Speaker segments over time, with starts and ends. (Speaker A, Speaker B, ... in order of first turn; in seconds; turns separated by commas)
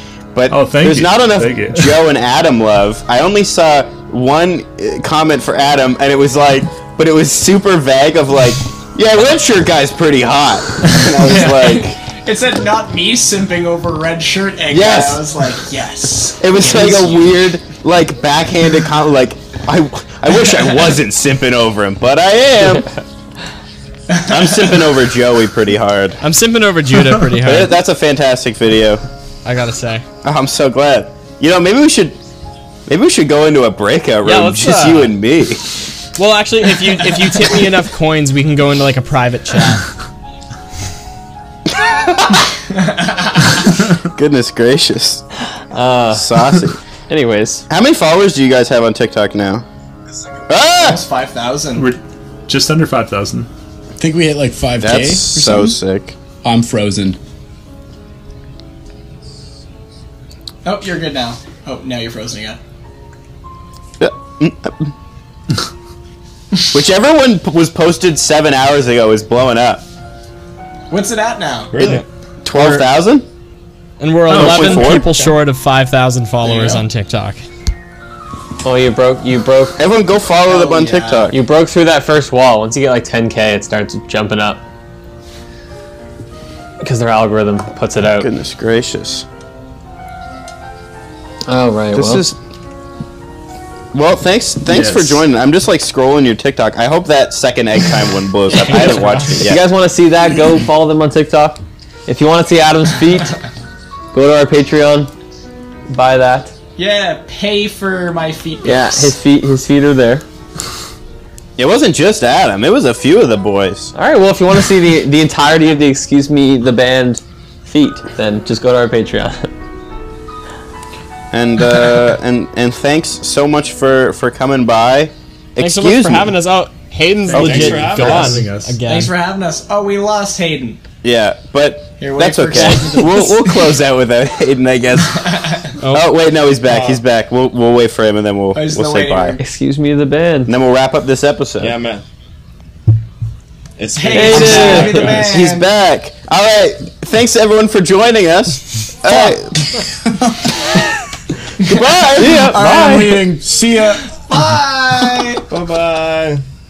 Speaker A: 0.3-12.0, Speaker B: 0.5-2.0, Speaker C: 11.1-17.3, Speaker A: 14.7-15.3, Speaker A: 16.4-22.9, Speaker C: 24.1-24.6, Speaker A: 24.2-26.2, Speaker D: 26.2-27.8, Speaker A: 27.4-29.0, Speaker D: 29.4-30.1, Speaker A: 30.2-32.2, Speaker A: 32.9-35.6, Speaker D: 34.2-35.2, Speaker D: 36.2-39.8, Speaker A: 41.8-42.4, Speaker C: 42.7-43.6, Speaker A: 44.0-45.2, Speaker E: 45.7-46.4, Speaker A: 46.1-46.8, Speaker E: 47.1-47.6, Speaker A: 47.7-49.6, Speaker A: 50.5-51.0, Speaker C: 50.8-51.9, Speaker B: 51.8-53.5, Speaker F: 54.0-55.8, Speaker A: 54.8-56.1, Speaker F: 56.4-57.2, Speaker C: 60.6-62.6, Speaker A: 64.0-64.9, Speaker A: 66.7-69.8, Speaker C: 70.9-72.0, Speaker G: 71.7-72.1, Speaker A: 72.5-73.3, Speaker D: 74.0-77.4, Speaker G: 74.3-75.4, Speaker B: 74.3-74.6, Speaker A: 74.4-74.9, Speaker C: 76.4-76.8, Speaker E: 78.6-79.8, Speaker A: 79.8-81.3, Speaker C: 80.5-81.3, Speaker E: 81.3-84.6, Speaker E: 86.8-88.3, Speaker A: 88.2-89.2, Speaker E: 91.5-92.3, Speaker A: 91.9-92.4, Speaker A: 93.9-99.6, Speaker E: 99.3-103.4, Speaker E: 104.1-105.1, Speaker E: 105.9-106.5, Speaker C: 106.8-109.2, Speaker E: 108.6-110.2, Speaker A: 111.6-113.9, Speaker E: 114.0-119.5, Speaker A: 121.3-126.4, Speaker D: 125.6-129.1, Speaker B: 127.3-128.8, Speaker G: 127.3-128.5, Speaker A: 127.3-127.7, Speaker C: 128.9-130.8, Speaker A: 131.0-135.4, Speaker C: 132.0-133.6, Speaker E: 132.5-133.1, Speaker C: 135.2-135.7, Speaker D: 135.8-136.1, Speaker A: 135.9-139.4, Speaker C: 136.7-137.0, Speaker C: 138.5-139.4, Speaker E: 139.4-140.5, Speaker A: 140.5-141.8, Speaker G: 141.6-142.0, Speaker G: 143.8-145.3, Speaker C: 144.0-145.7, Speaker E: 144.1-145.1, Speaker A: 144.4-149.6, Speaker A: 151.6-152.9, Speaker E: 152.2-153.2, Speaker F: 152.5-154.0, Speaker C: 154.2-155.4, Speaker G: 155.5-156.4